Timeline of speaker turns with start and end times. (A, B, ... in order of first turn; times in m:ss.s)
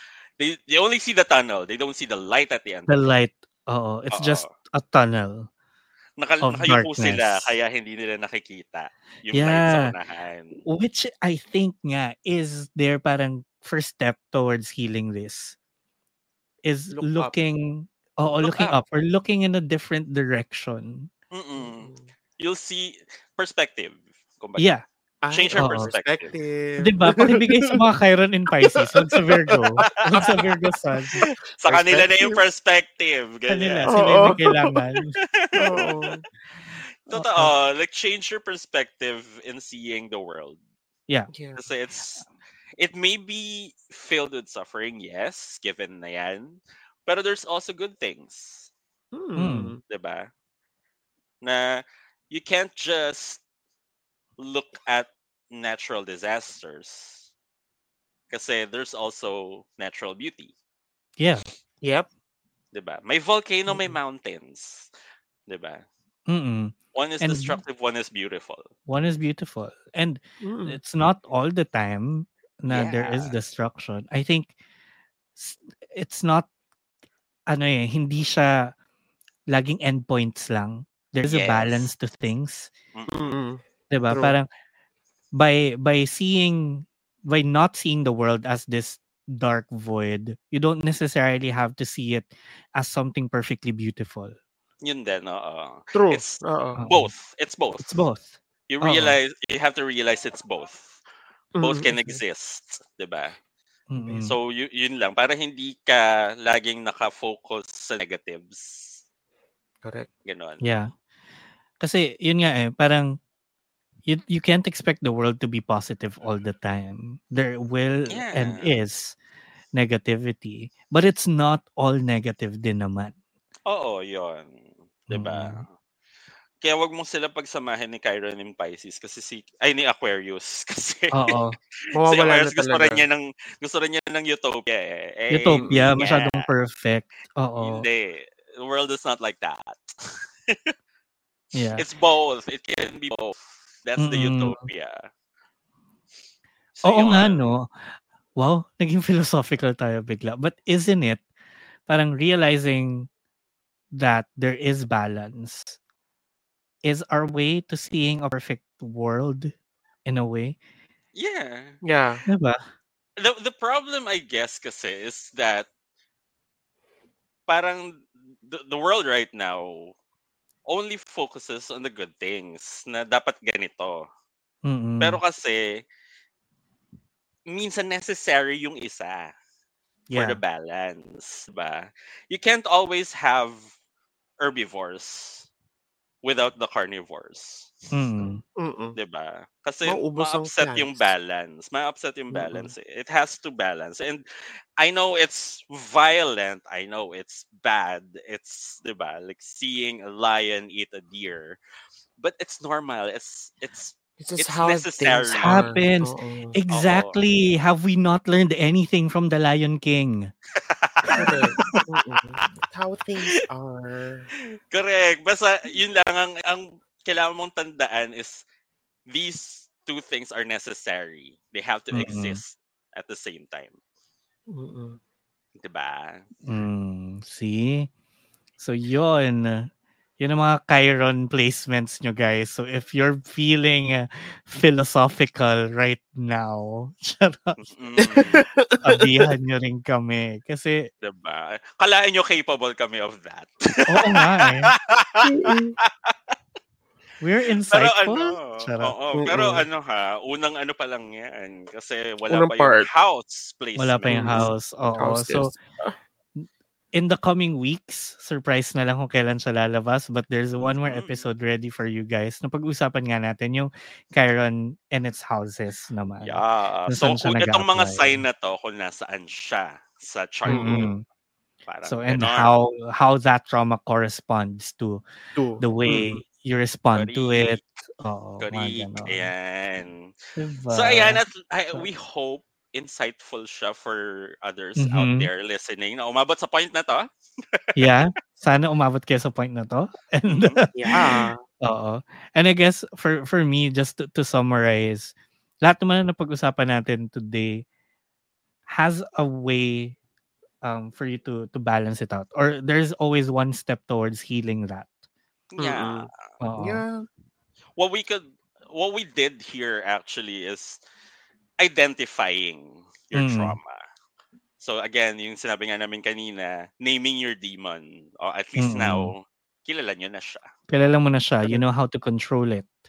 0:00.4-0:03.0 A
0:02.9-0:05.5 B
0:04.1-0:04.5 A
0:06.2-0:10.6 A
0:06.4-0:07.5 B
0:09.3-0:09.9 B
0:10.6-0:15.6 B
0:16.6-0:21.1 B
0:16.9-0:17.3 C
0:18.4-0:18.7 A
0:21.3-0:24.7 A
0:21.6-0:22.1 C
0:24.6-0:24.8 B
0:25.2-0:27.8 C
0:25.3-0:26.3 A
0:25.6-0:25.9 B
0:26.8-0:31.2 B
0:28.6-0:32.4 C
0:29.8-0:30.4 A
0:31.6-0:34.4 A
0:33.5-0:35.2 B
0:33.9-0:34.4 C
0:35.3-0:35.9 A
0:35.6-0:36.2 C
0:37.0-0:40.6 A
0:37.1-0:37.5 B
0:41.3-0:41.6 C
0:41.6-0:42.2 A
0:42.8-0:48.7 A
0:49.1-0:49.8 C
0:49.4-0:49.8 B
0:49.9-0:50.3 A
0:51.4-0:53.4 A
0:54.4-0:57.3 A
0:58.3-1:00.5 A
1:01.2-1:01.4 B
1:01.8-1:02.1 C
1:02.7-1:04.9 A
1:03.7-1:04.0 C
1:05.5-1:05.8 A
1:06.3-1:07.6 B
1:06.9-1:08.7 A
1:08.9-1:14.5 B
1:10.4-1:10.8 C
1:12.7-1:13.3 A
1:15.4-1:16.5 B
1:17.5-1:18.7 B
1:19.5-1:22.7 B
1:21.3-1:21.9 A
1:23.1-1:24.4 C
1:23.9-1:24.5 B
1:25.4-1:34.4 B
1:34.8-1:38.0 A
1:35.9-1:36.8 C
1:36.8-1:37.1 B
1:37.8-1:39.2 B
1:38.7-1:41.0 A
1:41.6-1:42.2 C
1:41.6-1:43.4 A
1:43.9-1:44.4 B
1:44.2-1:49.0 A
1:50.2-1:50.7 A
1:50.6-1:50.9 B
1:51.8-1:53.2 B
1:54.0-1:59.2 B
1:58.1-1:58.7 A
1:59.7-2:03.1 B
2:03.7-2:05.7 A
2:05.1-2:05.6 B
2:06.6-2:11.4 A
2:11.1-2:11.6 B
2:11.9-2:13.0 C
2:12.0-2:16.5 A
2:15.3-2:17.8 B
2:17.6-2:20.7 A
2:21.5-2:21.8 B
2:21.8-2:25.0 A
2:24.0-2:24.6 B
2:26.8-2:27.4 A
2:26.8-2:31.2 B
2:31.9-2:33.1 B
2:34.0-2:35.8 B
2:36.8-2:39.5 B
2:40.0-2:40.6 B
2:41.1-2:41.8 A
2:41.8-2:42.2 C
2:42.3-2:42.6 B
2:43.2-2:45.7 A
2:47.5-2:49.9 A
2:50.7-2:54.1 A
2:54.6-2:55.2 B
2:55.0-2:55.8 A
2:57.5-2:59.3 A
3:00.1-3:00.4 B
3:00.1-3:03.6 A
3:04.4-3:05.5 A
3:06.2-3:07.9 A
3:07.9-3:08.4 B
3:08.6-3:09.0 C
3:08.9-3:14.2 A
3:09.8-3:11.1 C
3:12.3-3:12.7 C
3:14.8-3:21.6 A
3:22.2-3:25.7 A
3:24.2-3:26.6 C
3:25.4-3:30.3 B
3:26.7-3:27.2 A
3:30.6-3:31.8 A
3:31.0-3:31.4 B
3:31.1-3:34.3 C
3:34.7-3:38.4 A
3:39.1-3:43.7 A
3:41.9-3:42.4 B
3:44.5-3:45.0 C
3:45.6-3:46.2 A
3:46.4-3:47.9 B
3:48.6-3:49.7 B
3:50.2-3:57.6 B
3:57.6-3:58.5 A
3:58.0-3:59.3 C
3:58.8-4:00.8 B
4:01.0-4:06.1 A
4:03.9-4:04.7 B
4:05.2-4:05.8 C
4:07.2-4:08.9 B
4:07.7-4:14.4 A
4:09.2-4:09.6 C
4:12.3-4:12.9 C
4:13.8-4:15.5 B
4:14.1-4:14.5 C
4:15.0-4:15.9 C
4:16.4-4:28.2 B
4:20.8-4:21.2 A
4:26.2-4:30.9 A
4:30.4-4:31.0 B
4:30.5-4:30.9 C
4:31.7-4:32.5 A
4:31.8-4:35.0 B
4:35.4-4:35.6 C
4:35.6-4:39.3 B
4:35.8-4:36.2 A
4:36.9-4:37.6 A
4:38.4-4:40.2 A
4:40.4-4:41.2 B
4:40.7-4:48.0 A
4:44.8-4:45.3 B
4:47.8-4:55.1 B
4:50.3-4:50.6 A
4:50.7-4:51.4 C
4:55.6-4:57.6 B
4:58.7-5:00.0 B
5:00.6-5:04.9 B
5:05.5-5:06.2 A
5:05.6-5:07.0 C
5:06.4-5:06.8 B
5:07.8-5:10.8 A
5:11.6-5:13.8 A
5:13.1-5:13.6 B
5:14.6-5:20.5 A
5:18.6-5:19.1 B
5:20.7-5:22.7 B